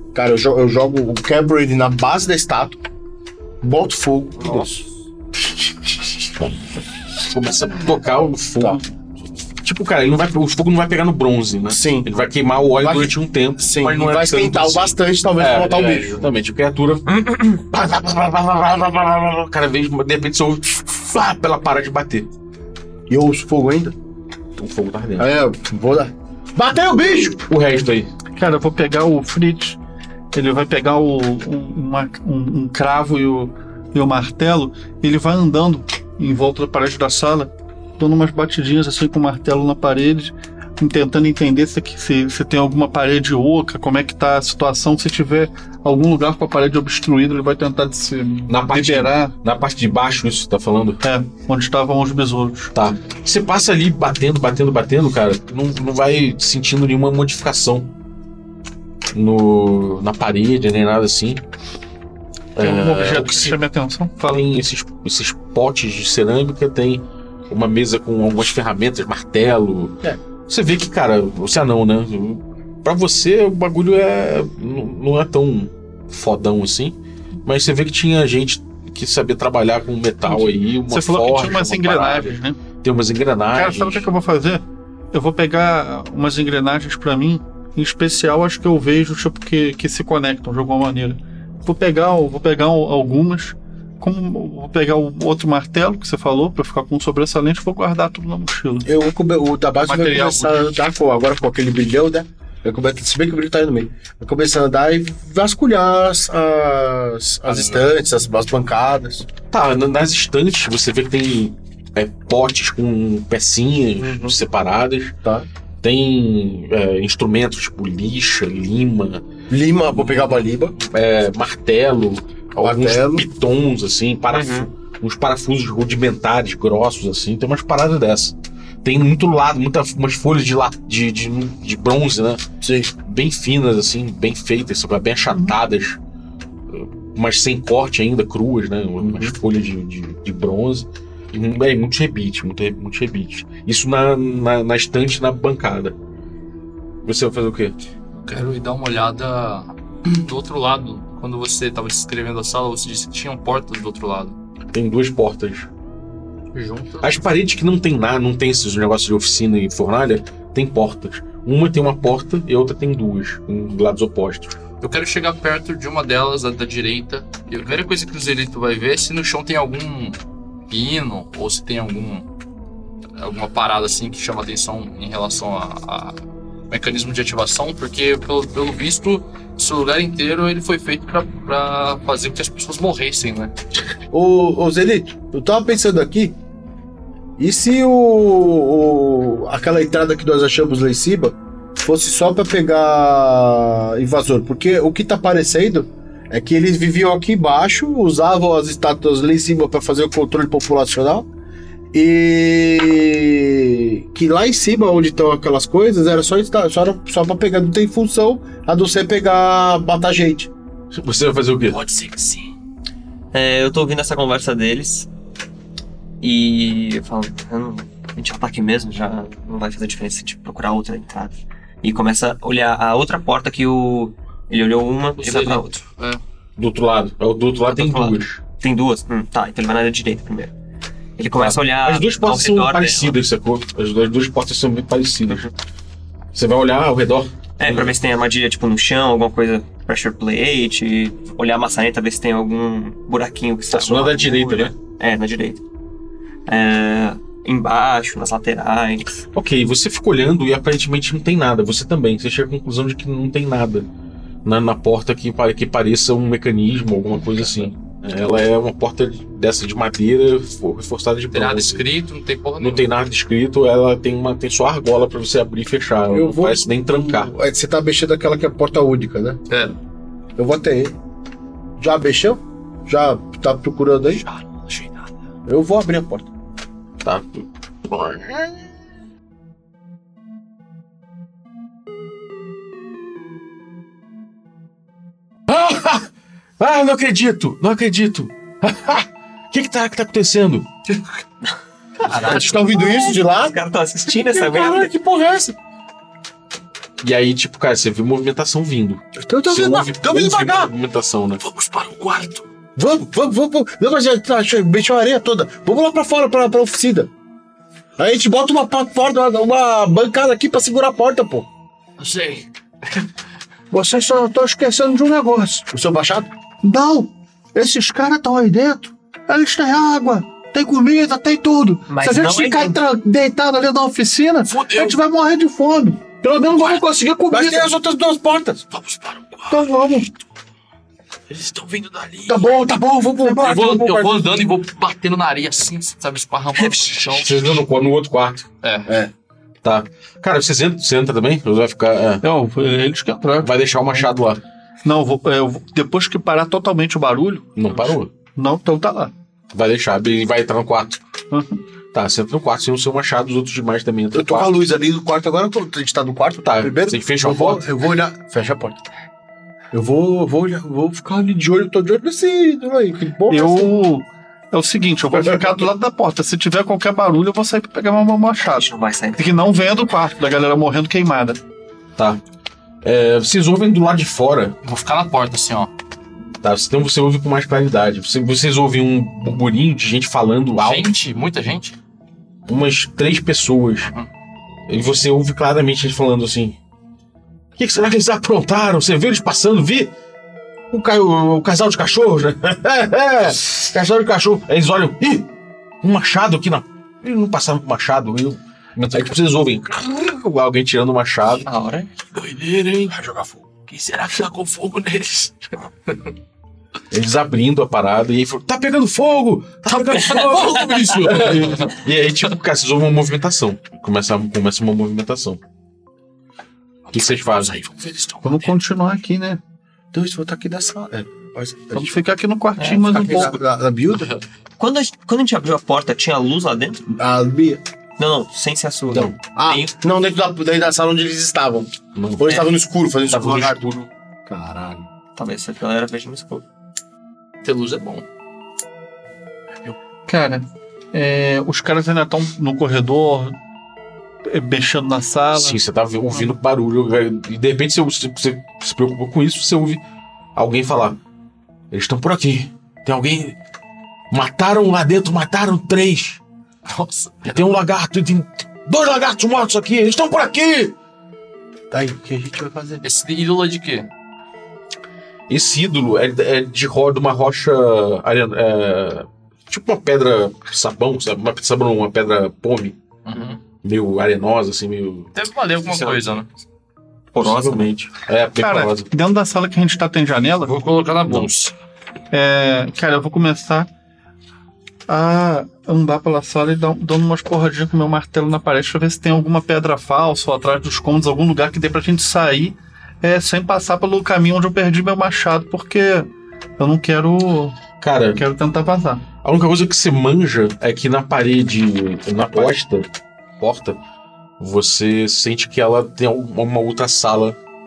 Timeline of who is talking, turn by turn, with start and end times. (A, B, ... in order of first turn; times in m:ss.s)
0:00.1-0:02.8 A
0:03.6-0:04.8 A
0:07.2-0:08.9 B
0:09.6-0:22.3 B
0:11.7-0:12.1 A
0:12.8-0:16.3 A
0:23.1-0:23.9 A
0:24.6-0:25.3 B
0:25.2-0:27.4 A
0:27.5-0:28.1 B
0:28.4-0:29.8 C
0:30.3-0:49.3 C
0:48.5-0:51.0 B
0:51.0-0:52.7 C
0:52.7-0:57.9 B
0:59.1-1:01.4 B
1:02.6-1:03.6 B
1:02.6-1:04.5 C
1:04.2-1:24.1 B
1:20.3-1:22.6 C
1:23.5-1:38.9 C
1:38.8-1:49.2 A
1:39.8-1:40.7 C
1:49.5-1:55.2 B
1:54.0-1:54.4 A
1:55.8-1:59.2 B
1:59.5-2:00.8 A
2:00.0-2:12.4 B
2:02.6-2:03.3 A
2:04.3-2:04.7 D
2:12.6-2:12.9 A
2:13.0-2:16.0 B
2:16.7-2:25.9 B
2:19.0-2:19.4 A
2:27.0-2:27.8 B
2:28.2-2:34.4 E
2:34.7-2:35.7 B
2:36.5-2:37.2 E
2:37.0-2:44.6 B
2:44.8-2:50.2 E
2:50.7-2:52.3 E
2:53.2-2:56.2 E
2:56.7-3:03.5 E
3:04.1-3:06.4 A
3:07.4-3:21.3 A
3:21.9-3:30.5 A
3:30.9-3:31.8 B
3:31.7-3:32.5 F
3:33.3-3:35.1 D
3:36.2-3:45.7 D
3:45.2-3:46.2 E
3:46.6-3:48.4 B
3:47.7-3:50.5 D
3:51.2-3:53.2 D
3:51.3-3:55.5 B
3:56.3-3:57.9 B
3:57.6-4:05.6 D
4:03.7-4:04.7 B
4:06.5-4:09.1 D
4:09.3-4:13.9 B
4:14.4-4:21.9 B
4:17.3-4:17.7 E
4:21.3-4:22.9 E
4:22.6-4:27.3 B
4:26.1-4:29.4 A
4:29.5-4:29.8 E
4:30.4-4:31.0 A
4:31.8-4:34.2 A
4:34.2-4:35.1 F
4:35.5-4:36.3 A
4:37.0-4:38.6 B
4:45.5-4:50.7 B
4:52.1-4:53.6 A
4:52.1-4:54.9 D
4:54.1-4:55.6 A
4:57.0-5:01.4 B
4:59.2-5:00.7 A
5:01.4-5:02.4 F
5:02.8-5:07.1 A
5:08.0-5:11.5 A
5:12.0-5:12.4 F
5:13.7-5:15.7 C
5:15.7-5:16.3 A
5:16.6-5:27.7 C
5:21.9-5:22.8 D
5:24.5-5:25.0 F
5:27.3-5:28.6 A
5:28.7-5:29.7 F
5:29.6-5:30.0 C
5:31.3-5:32.6 F
5:32.3-5:34.4 A
5:33.3-5:37.6 E
5:37.0-5:38.5 B
5:38.6-5:38.9 E
5:38.9-5:39.1 A
5:39.6-5:42.2 B
5:42.2-5:44.1 C
5:43.4-5:44.4 B
5:44.8-5:47.6 C
5:47.6-5:48.1 B
5:48.3-5:49.1 C
5:49.5-5:51.0 B
5:51.3-5:51.6 C
5:51.9-5:54.5 B
5:54.1-5:58.8 A
5:56.4-5:57.7 B
5:59.7-6:03.7 A
6:03.3-6:11.4 C
6:05.1-6:05.7 A
6:08.5-6:09.3 D
6:12.8-6:14.6 B
6:14.6-6:15.7 E
6:16.4-6:21.0 B
6:20.5-6:21.8 E
6:22.5-6:23.9 B
6:24.7-6:26.6 B
6:27.6-6:29.9 B
6:30.7-6:35.3 B
6:35.8-6:41.4 B
6:41.4-6:41.9 D
6:42.1-6:45.5 F
6:46.9-6:55.4 B
6:49.9-6:51.8 E
6:50.2-6:51.2 F
6:56.9-6:58.5 F
6:56.9-6:57.6 B
6:58.2-6:59.4 C
6:59.9-7:02.0 A
7:01.7-7:03.4 C
7:02.6-7:03.3 D
7:02.9-7:04.1 A
7:03.9-7:04.2 E
7:04.6-7:06.8 D
7:06.9-7:07.6 A
7:08.0-7:09.7 D
7:08.9-7:13.6 A
7:11.9-7:12.4 B
7:13.1-7:13.9 B
7:14.3-7:14.8 A
7:15.2-7:16.4 D
7:17.4-7:18.0 E
7:20.1-7:23.4 C
7:24.2-7:25.6 C
7:25.3-7:29.8 B
7:30.4-7:31.0 B
7:31.7-7:33.4 B
7:34.1-7:36.2 B
7:36.7-7:37.5 E
7:37.2-7:40.7 B
7:41.7-7:42.8 A
7:42.8-7:43.9 E
7:45.3-7:52.8 B
7:53.0-7:53.4 E
7:53.6-7:55.1 B
7:55.1-7:56.3 E
7:55.6-7:56.0 D
7:57.1-7:57.7 D
7:57.2-7:58.9 B
7:58.4-8:00.5 C
8:00.4-8:01.5 E
8:01.1-8:01.4 B
8:02.1-8:03.7 C
8:04.9-8:17.6 C
8:17.8-8:18.2 B
8:18.1-8:19.0 C
8:19.2-8:23.8 B
8:24.4-8:27.4 B